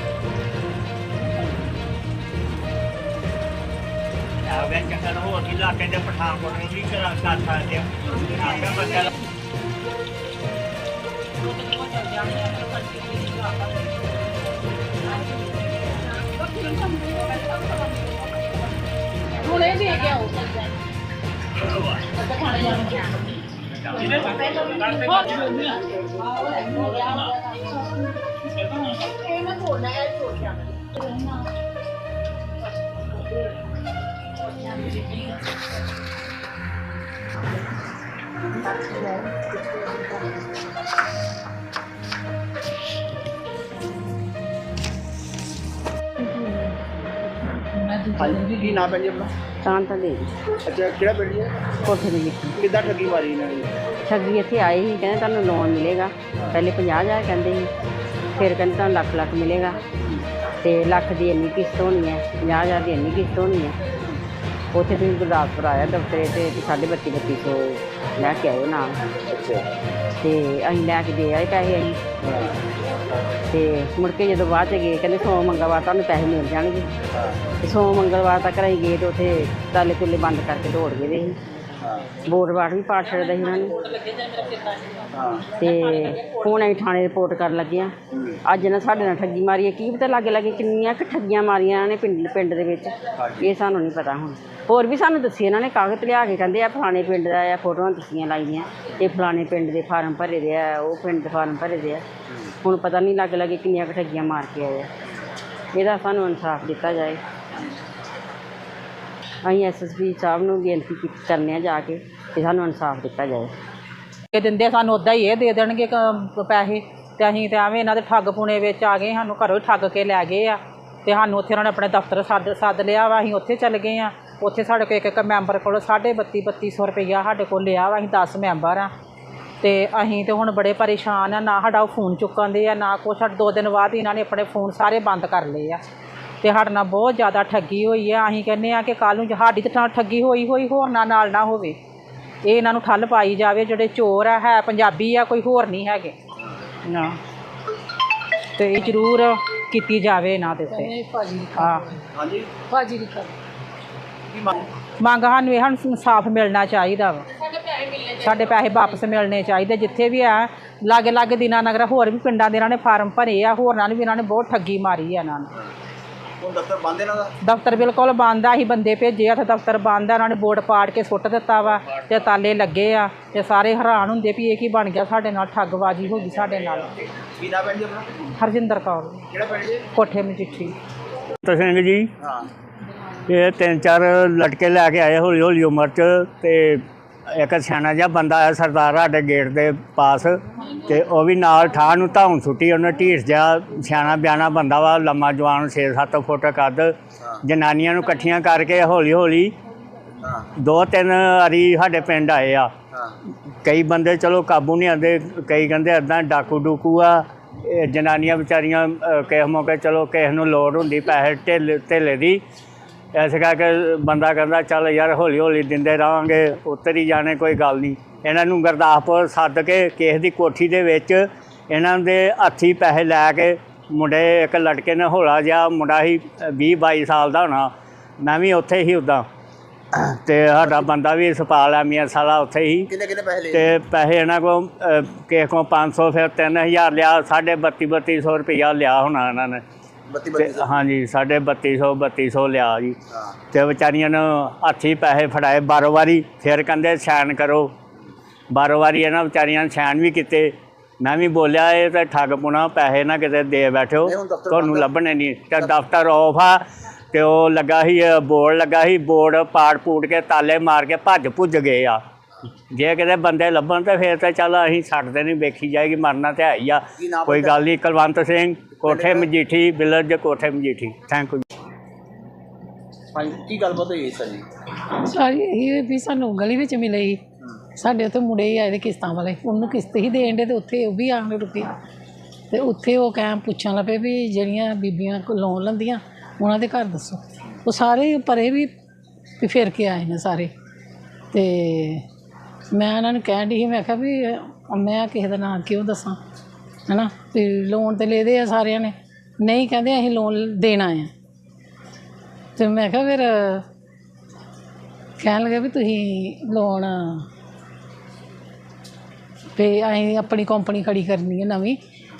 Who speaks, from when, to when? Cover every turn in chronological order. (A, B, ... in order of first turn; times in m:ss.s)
0:04.4-0:09.1 A
0:11.4-0:13.8 B
0:16.2-0:18.2 B
0:19.4-0:20.6 B
0:22.1-0:23.2 B
0:24.0-0:27.8 B
0:28.8-0:30.0 B
0:38.6-0:40.1 C
0:46.2-0:46.8 C
0:47.5-0:48.9 C
0:48.2-0:49.3 D
0:49.7-0:50.3 E
0:50.6-0:51.7 D
0:51.9-0:52.6 E
0:52.6-0:53.7 D
0:54.1-0:57.7 E
0:56.4-0:56.6 D
0:58.4-0:59.8 E
1:00.0-1:00.2 D
1:00.6-1:03.7 E
1:04.8-1:09.0 E
1:09.2-1:09.7 D
1:10.2-1:12.0 E
1:12.2-1:12.6 D
1:13.5-1:16.9 E
1:17.1-1:17.4 D
1:17.6-1:21.4 E
1:21.8-1:22.2 D
1:22.2-1:23.7 E
1:23.6-1:26.5 B
1:25.1-1:25.6 D
1:25.6-1:27.9 E
1:28.1-1:28.4 D
1:28.5-1:42.0 E
1:33.1-1:33.5 D
1:42.3-1:42.6 D
1:42.7-1:44.9 E
1:45.7-1:47.2 E
1:49.4-1:53.5 E
1:54.3-2:08.9 B
2:09.6-2:15.8 B
2:16.4-2:21.8 B
2:22.4-2:26.2 B
2:26.8-2:27.2 B
2:28.6-2:30.9 B
2:30.7-2:32.1 C
2:32.1-2:32.5 D
2:32.7-2:33.3 C
2:34.3-2:34.7 D
2:35.0-2:45.5 B
2:46.4-2:47.3 D
2:47.4-2:56.9 B
2:57.1-2:58.2 D
2:58.4-2:59.2 B
2:59.3-2:59.9 D
2:59.9-3:00.8 B
3:01.4-3:02.1 A
3:02.2-3:02.5 D
3:03.2-3:19.5 A
3:20.2-3:20.5 D
3:20.6-3:22.7 A
3:22.9-3:23.2 D
3:23.6-3:32.4 A
3:33.1-3:49.2 A
3:49.9-3:52.9 A
3:52.9-3:53.7 D
3:53.5-3:59.6 A
4:00.1-4:00.7 D
4:00.4-4:03.0 A
4:03.1-4:03.4 D
4:03.5-4:07.7 A
4:08.5-4:22.0 A
4:14.0-4:14.9 D
4:22.7-4:31.4 A
4:27.0-4:27.7 D
4:28.8-4:29.2 D
4:33.1-4:34.4 D
4:35.0-4:37.2 C
4:37.8-4:41.7 C
4:42.5-4:48.7 C
4:49.4-4:50.5 C
4:51.3-4:52.0 C
4:52.7-4:56.2 C
4:56.9-5:01.1 C
5:02.6-5:03.6 C
5:05.2-5:07.3 C
5:09.6-5:11.8 C